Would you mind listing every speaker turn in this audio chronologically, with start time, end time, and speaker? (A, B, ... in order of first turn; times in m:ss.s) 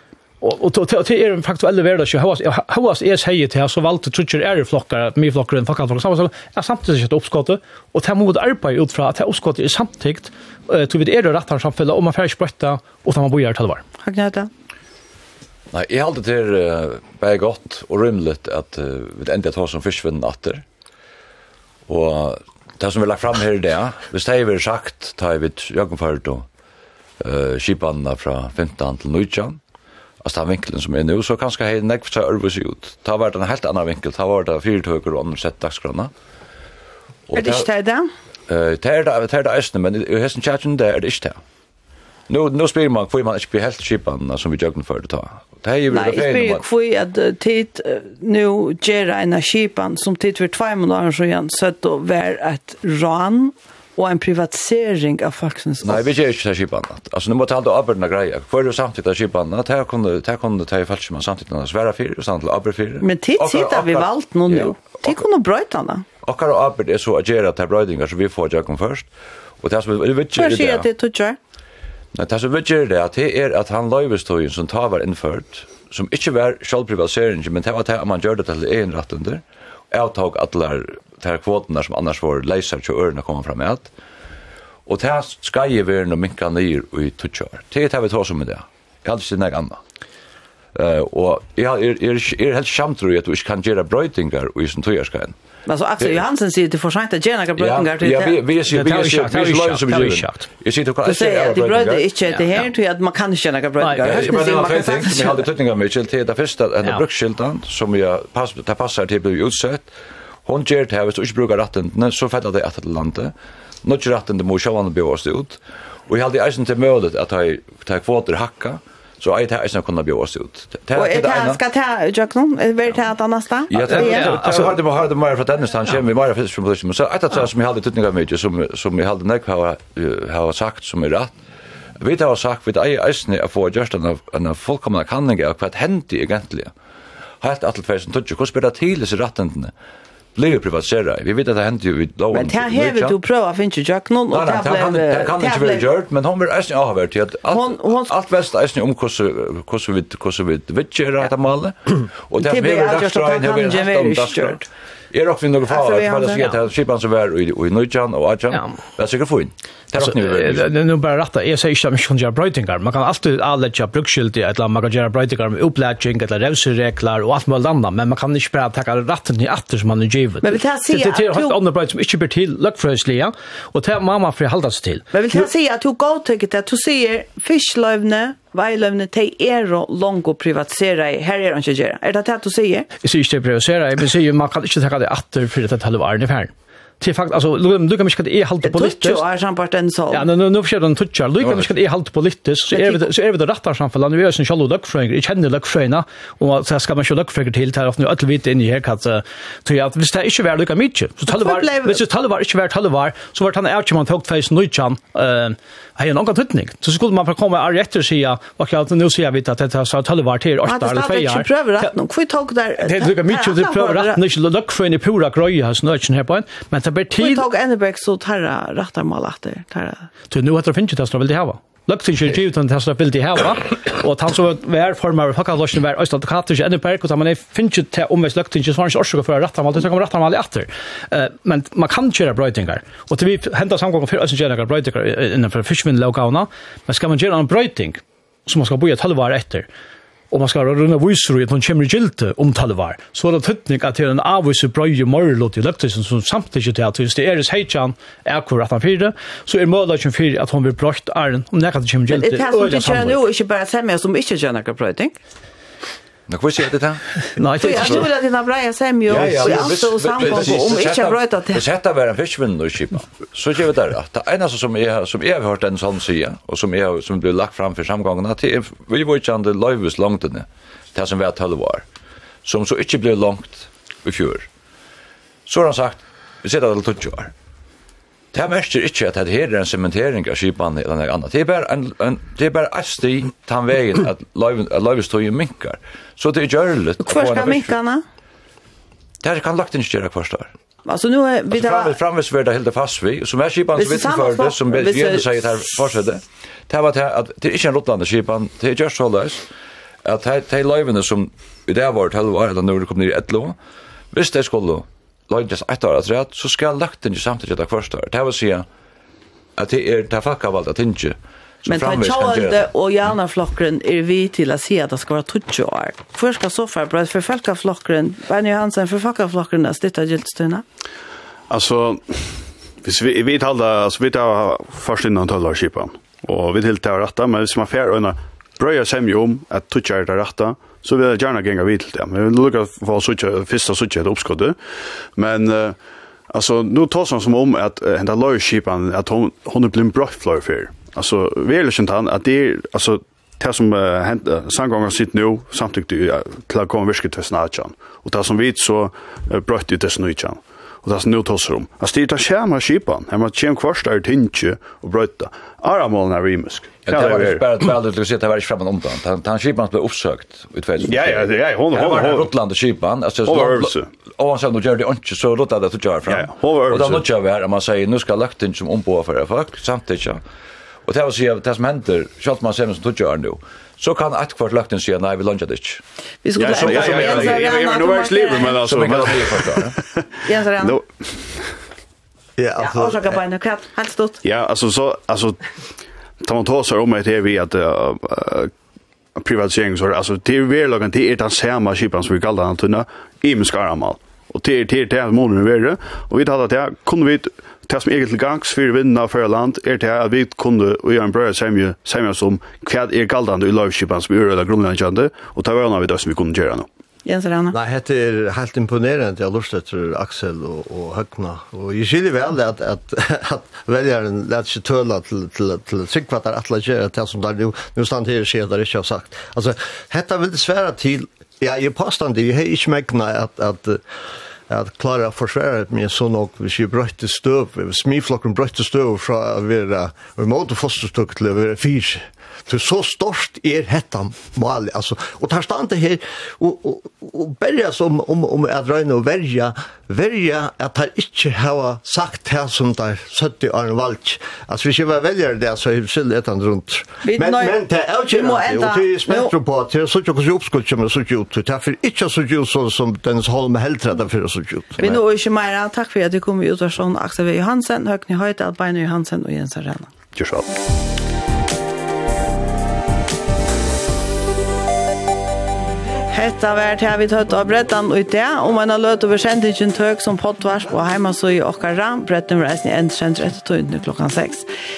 0:00.4-0:13.8 A
0:14.0-0:14.5 B
0:15.7-0:20.6 C
0:21.9-0:26.5 C
0:27.2-0:29.6 C
0:30.2-0:36.1 C
0:37.3-0:37.7 C
0:37.3-0:38.1 B
0:38.5-0:41.4 C
0:42.3-0:46.6 C
0:45.9-0:56.0 B
0:55.8-1:05.2 C
1:03.0-1:06.0 B
1:06.2-1:09.1 C
1:09.6-1:10.9 C
1:10.4-1:11.4 B
1:12.1-1:23.9 C
1:24.9-1:29.8 C
1:30.8-1:35.4 C
1:35.7-1:38.4 B
1:37.6-1:42.1 C
1:38.7-1:40.4 A
1:41.0-1:45.5 B
1:43.8-1:44.5 A
1:44.0-1:49.9 C
1:50.5-1:53.3 C
1:53.8-2:01.6 C
2:01.0-2:04.4 B
2:03.7-2:11.3 C
2:03.8-2:04.8 A
2:12.0-2:16.7 C
2:17.4-2:19.7 C
2:20.4-2:23.2 C
2:22.3-2:25.9 B
2:24.3-2:40.7 C
2:27.5-2:28.1 B
2:32.4-2:34.7 B
2:35.7-2:36.6 B
2:40.0-2:55.0 A
2:50.4-2:51.6 B
2:55.1-3:02.9 B
3:03.0-3:09.2 A
3:08.6-3:10.3 B
3:10.1-3:31.9 A
3:11.4-3:11.7 C
3:12.7-3:13.0 B
3:21.3-3:22.0 B
3:30.6-3:34.2 B
3:32.8-3:37.4 A
3:37.2-3:40.1 B
3:40.3-3:59.7 A
4:00.3-4:13.2 A
4:12.1-4:15.2 B
4:16.3-4:18.0 C
4:17.4-4:18.1 A
4:17.6-4:21.6 B
4:19.1-4:31.8 C
4:32.4-4:34.5 C
4:35.5-4:37.3 C
4:38.3-4:47.7 C
4:47.0-4:48.0 B
4:49.2-4:50.5 C
4:50.9-4:52.0 B
4:51.5-4:59.4 C
4:53.8-4:55.3 B
5:00.0-5:03.6 C
5:04.1-5:08.7 C
5:09.6-5:12.7 C
5:11.7-5:20.6 B
5:21.5-5:34.6 D
5:35.2-5:35.8 D
5:36.3-5:57.4 D
5:56.9-6:10.2 C
6:00.8-6:02.3 D
6:03.3-6:03.9 D
6:06.1-6:07.0 D
6:10.9-6:15.8 C
6:16.2-6:18.6 B
6:16.4-6:20.0 D
6:16.4-6:17.6 C
6:18.5-6:19.8 C
6:20.2-6:20.8 B
6:20.6-6:21.6 D
6:22.4-6:23.2 E
6:22.6-6:24.2 B
6:24.2-6:25.5 D
6:26.2-6:28.5 D
6:29.2-6:46.7 D
6:47.0-6:47.6 B
6:47.5-7:03.8 E
7:04.5-7:35.0 E
7:27.0-7:29.3 B
7:34.8-7:39.9 B
7:40.2-7:40.5 D
7:46.1-7:54.5 B